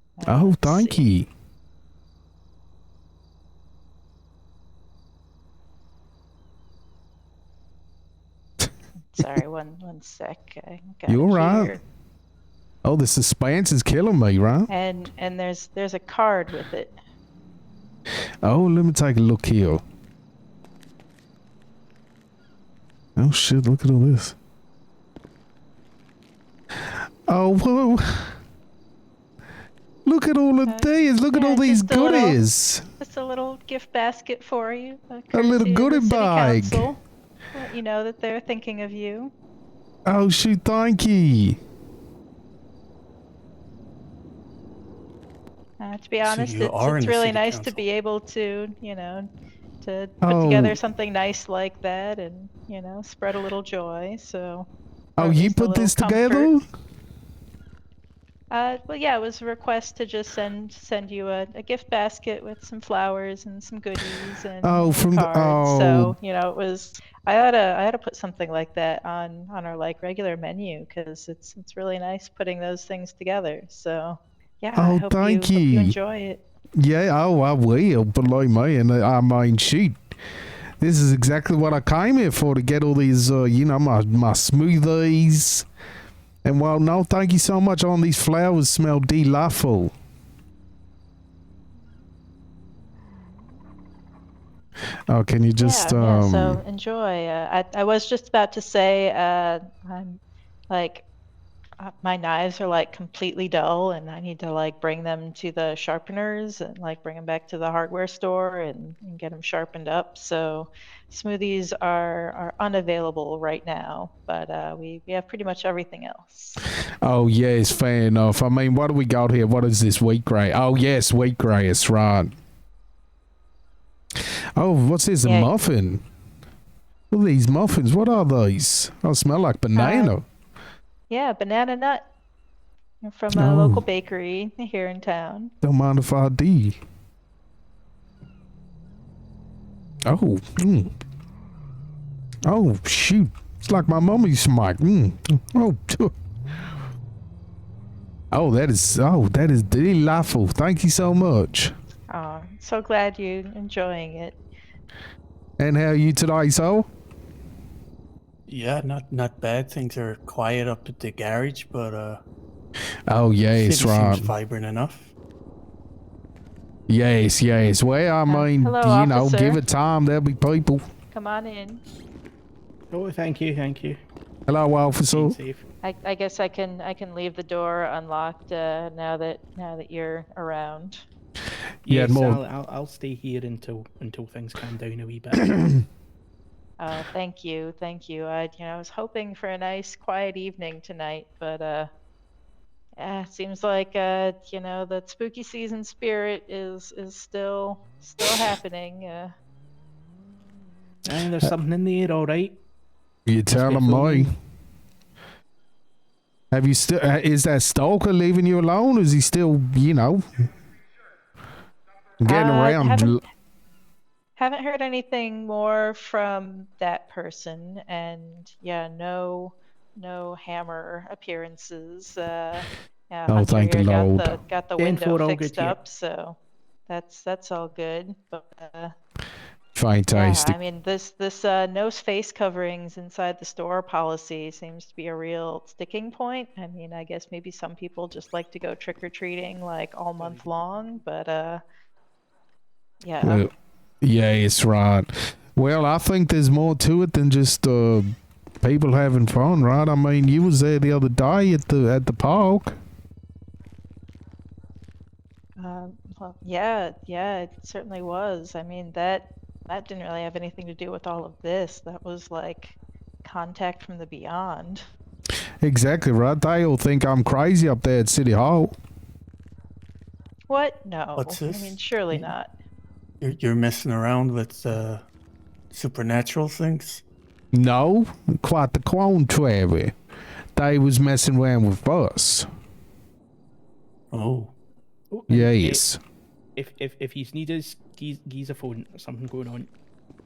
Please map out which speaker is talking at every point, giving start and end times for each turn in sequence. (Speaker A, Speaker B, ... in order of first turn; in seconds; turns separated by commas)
Speaker A: 0.2-1.1, Speaker B: 0.2-1.3, Speaker A: 9.0-11.8, Speaker B: 11.1-11.7, Speaker B: 12.8-14.7, Speaker A: 14.7-16.9, Speaker B: 18.4-19.8, Speaker B: 23.2-24.3, Speaker B: 27.3-28.3, Speaker B: 30.0-32.8, Speaker A: 30.6-32.4, Speaker A: 33.0-37.0, Speaker B: 35.3-36.9, Speaker A: 37.5-39.3, Speaker B: 40.0-41.6, Speaker A: 45.8-49.3, Speaker C: 46.2-47.8, Speaker A: 49.8-56.5, Speaker B: 50.2-50.8, Speaker B: 55.2-56.6, Speaker A: 58.5-76.4, Speaker B: 64.6-66.1, Speaker B: 74.7-76.0, Speaker B: 76.8-80.0, Speaker B: 80.8-85.7, Speaker B: 86.4-89.9, Speaker B: 95.1-96.6, Speaker A: 95.6-101.0, Speaker A: 101.8-116.6, Speaker B: 117.0-122.3, Speaker B: 124.2-126.0, Speaker A: 125.2-125.5, Speaker B: 127.1-130.2, Speaker A: 129.7-130.2, Speaker A: 131.1-132.1, Speaker A: 133.0-135.5, Speaker B: 133.3-133.8, Speaker B: 135.6-136.8, Speaker B: 140.1-140.9, Speaker B: 142.4-146.1, Speaker B: 148.3-151.7, Speaker A: 152.1-154.4, Speaker B: 155.6-156.9, Speaker C: 158.5-162.2, Speaker B: 163.1-164.3, Speaker C: 163.5-165.1, Speaker B: 166.9-170.8, Speaker A: 168.3-169.6, Speaker A: 171.1-171.8, Speaker D: 172.9-174.0, Speaker B: 174.5-175.4, Speaker D: 175.1-175.6, Speaker A: 175.8-181.0, Speaker B: 181.8-182.4, Speaker D: 181.9-185.8, Speaker A: 186.8-191.9, Speaker A: 193.0-199.3, Speaker D: 201.0-202.6, Speaker B: 203.2-204.3, Speaker D: 203.5-204.3, Speaker B: 206.5-210.2, Speaker B: 212.2-213.2, Speaker A: 212.2-213.2, Speaker A: 214.3-228.9, Speaker B: 223.3-224.4, Speaker D: 224.8-225.8, Speaker B: 229.7-230.6, Speaker A: 230.1-241.6, Speaker D: 240.2-240.6, Speaker A: 243.0-243.5, Speaker B: 243.2-243.5, Speaker B: 244.0-248.1, Speaker B: 248.6-252.8, Speaker A: 255.6-264.8, Speaker B: 265.6-268.7, Speaker A: 270.5-272.5, Speaker C: 271.1-272.3, Speaker C: 273.2-275.0, Speaker C: 275.7-277.0, Speaker B: 277.5-279.9, Speaker B: 280.6-282.5, Speaker C: 284.1-284.5, Speaker D: 285.1-285.8, Speaker B: 285.3-286.0, Speaker D: 286.6-289.7